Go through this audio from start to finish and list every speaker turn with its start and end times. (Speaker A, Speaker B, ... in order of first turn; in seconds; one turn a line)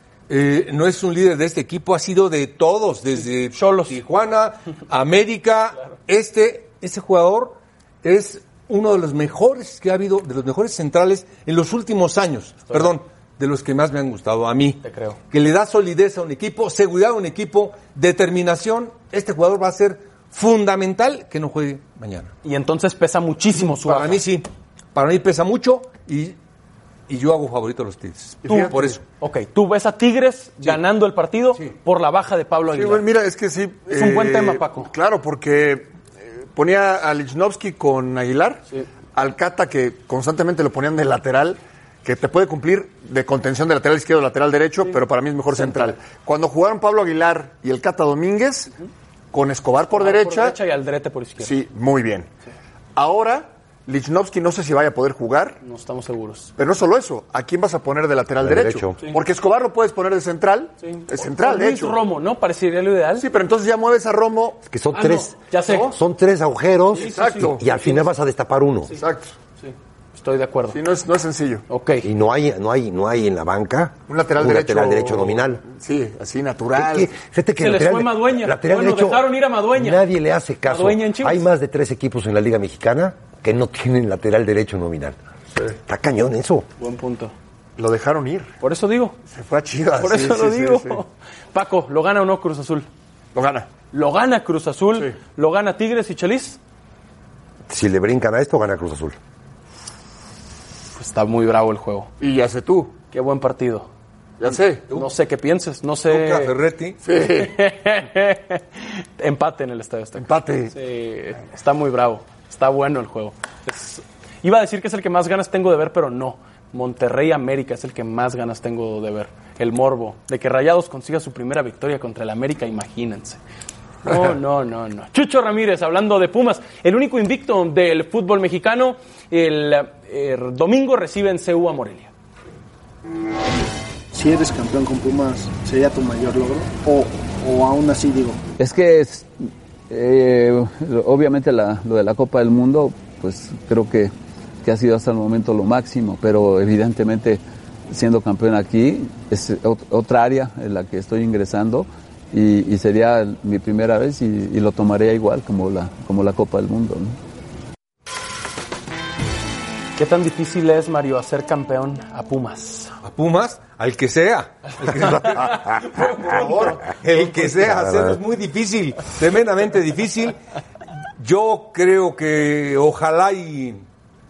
Speaker A: 0.3-14.8
Speaker B: 3.5-4.0
Speaker B: 12.7-12.9
Speaker B: 14.8-15.2
Speaker A: 15.3-22.3
Speaker B: 22.4-24.2
Speaker A: 23.6-26.4
Speaker A: 27.1-29.0
Speaker C: 28.4-29.0
Speaker B: 28.5-33.1
Speaker C: 32.7-35.9
Speaker B: 33.9-34.9
Speaker C: 36.5-38.6
Speaker C: 39.1-48.7
Speaker B: 45.5-45.9
Speaker C: 49.3-50.6
Speaker B: 49.9-51.5
Speaker C: 51.4-52.3
Speaker C: 53.0-55.6
Speaker B: 55.6-56.5
Speaker C: 56.6-62.0
Speaker D: 58.4-59.0
Speaker B: 60.8-63.3
Speaker C: 63.2-64.6
Speaker D: 64.7-68.9
Speaker B: 64.9-66.0
Speaker B: 66.9-68.1
Speaker C: 66.9-67.6
Speaker C: 68.9-69.3
Speaker B: 69.6-70.8
Speaker C: 70.7-71.6
Speaker B: 71.7-72.1
Speaker D: 72.0-75.6
Speaker C: 74.1-77.1
Speaker D: 76.8-85.2
Speaker B: 77.6-80.0
Speaker B: 80.7-81.4
Speaker D: 85.8-86.7
Speaker B: 86.8-87.3
Speaker C: 87.8-88.5
Speaker B: 88.6-89.2
Speaker C: 89.3-91.0
Speaker B: 90.0-92.9
Speaker C: 93.3-93.7
Speaker B: 93.9-96.6
Speaker D: 97.7-99.2
Speaker B: 100.9-102.1
Speaker C: 102.2-103.0
Speaker B: 103.1-103.9
Speaker C: 104.4-104.9
Speaker B: 104.9-106.6
Speaker A: 106.1-107.0
Speaker C: 107.0-107.5
Speaker B: 107.2-123.4
Speaker C: 110.2-110.7
Speaker B: 124.0-132.1
Speaker E: 134.1-138.4
Speaker F: 138.6-157.2
Speaker B: 160.0-163.0
Speaker A: 163.0-170.4
Speaker B: 164.9-167.0
Speaker A: 171.2-173.8